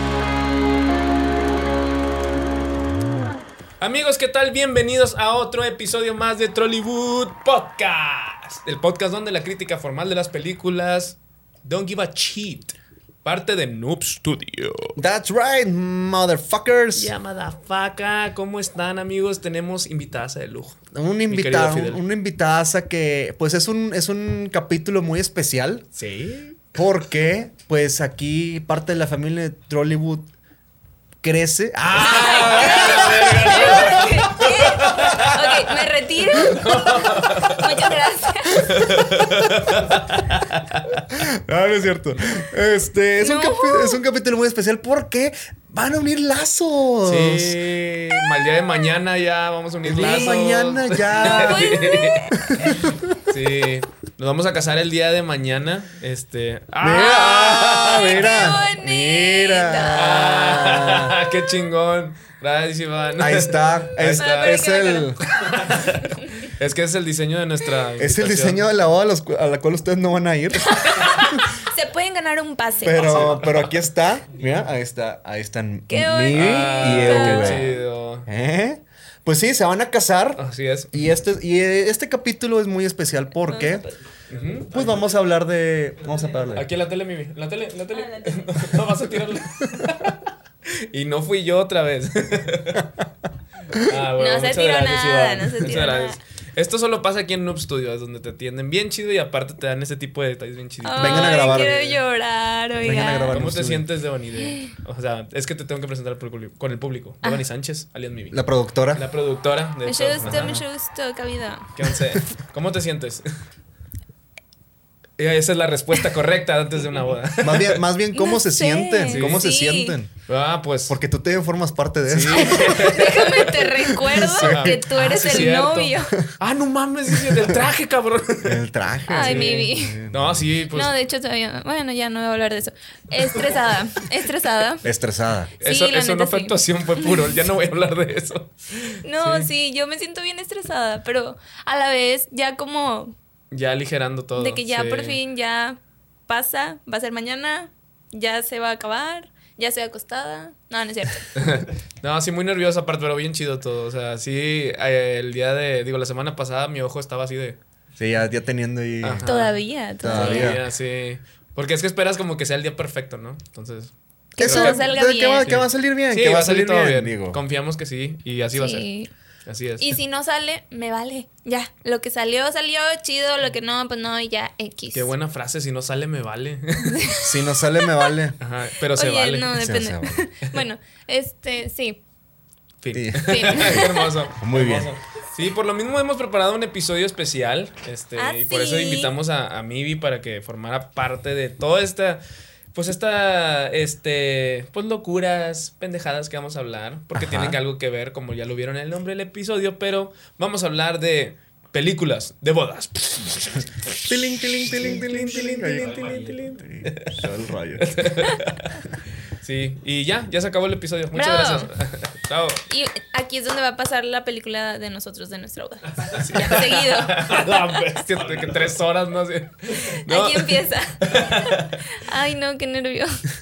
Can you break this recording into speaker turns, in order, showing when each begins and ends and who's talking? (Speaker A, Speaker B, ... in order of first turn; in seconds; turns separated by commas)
Speaker A: 3.8-15.0, Speaker B: 15.0-17.1, Speaker A: 16.9-22.0, Speaker B: 20.9-25.9, Speaker A: 25.9-26.7, Speaker B: 26.7-30.3, Speaker B: 31.2-34.2, Speaker A: 31.9-35.7, Speaker C: 32.1-38.7, Speaker A: 36.4-37.8, Speaker A: 38.7-41.0, Speaker B: 39.1-39.4, Speaker B: 41.1-47.6, Speaker C: 43.2-44.0, Speaker A: 47.0-58.5, Speaker B: 49.8-53.2, Speaker C: 51.1-52.4, Speaker B: 56.8-61.1, Speaker C: 57.8-60.6, Speaker A: 59.9-64.7, Speaker B: 63.2-65.2, Speaker C: 64.0-65.2, Speaker A: 65.4-68.7, Speaker B: 68.0-71.4, Speaker C: 70.7-73.3, Speaker B: 72.8-77.7, Speaker A: 72.9-73.7, Speaker C: 75.9-77.8, Speaker A: 76.3-78.3, Speaker B: 78.3-83.9, Speaker A: 80.4-80.9, Speaker C: 83.5-84.0, Speaker A: 84.3-85.0, Speaker B: 84.7-86.7, Speaker A: 86.5-90.3, Speaker C: 87.9-88.7, Speaker A: 90.9-92.9, Speaker A: 93.8-102.0, Speaker C: 94.2-96.2, Speaker C: 100.8-103.4, Speaker B: 101.0-101.8, Speaker B: 102.8-103.9, Speaker A: 103.3-108.4, Speaker B: 108.3-109.0, Speaker A: 108.9-110.6, Speaker C: 109.9-111.7, Speaker B: 110.2-110.6, Speaker A: 111.8-113.3, Speaker A: 115.2-117.8, Speaker B: 117.4-120.1, Speaker C: 118.1-120.0, Speaker A: 119.1-119.5, Speaker A: 120.3-121.0, Speaker B: 120.9-125.5, Speaker A: 122.1-123.6, Speaker C: 122.3-126.2, Speaker A: 124.2-130.9, Speaker B: 127.2-127.6, Speaker B: 128.4-130.5, Speaker C: 129.1-130.0, Speaker C: 130.7-134.8, Speaker B: 134.8-135.5, Speaker C: 135.6-137.3, Speaker A: 135.6-139.5, Speaker C: 139.0-143.2, Speaker A: 143.5-145.2, Speaker C: 144.4-151.3, Speaker A: 151.3-157.6, Speaker B: 158.0-159.3, Speaker A: 159.0-168.9, Speaker C: 159.2-160.6, Speaker B: 160.0-160.6, Speaker C: 164.3-165.6, Speaker B: 164.4-167.4, Speaker C: 168.5-169.1, Speaker A: 169.5-170.0, Speaker C: 169.8-175.1, Speaker A: 174.9-177.2, Speaker C: 176.8-178.1, Speaker B: 177.2-178.4, Speaker A: 178.4-179.5, Speaker C: 178.9-182.0, Speaker B: 179.5-180.2, Speaker A: 182.8-192.2, Speaker B: 182.9-184.9, Speaker C: 183.3-184.1, Speaker C: 188.2-189.1, Speaker A: 192.7-207.2, Speaker B: 197.1-197.6, Speaker B: 204.1-208.1, Speaker A: 207.8-212.6, Speaker C: 211.1-211.7, Speaker C: 212.7-217.6, Speaker A: 216.0-221.9, Speaker C: 219.9-223.2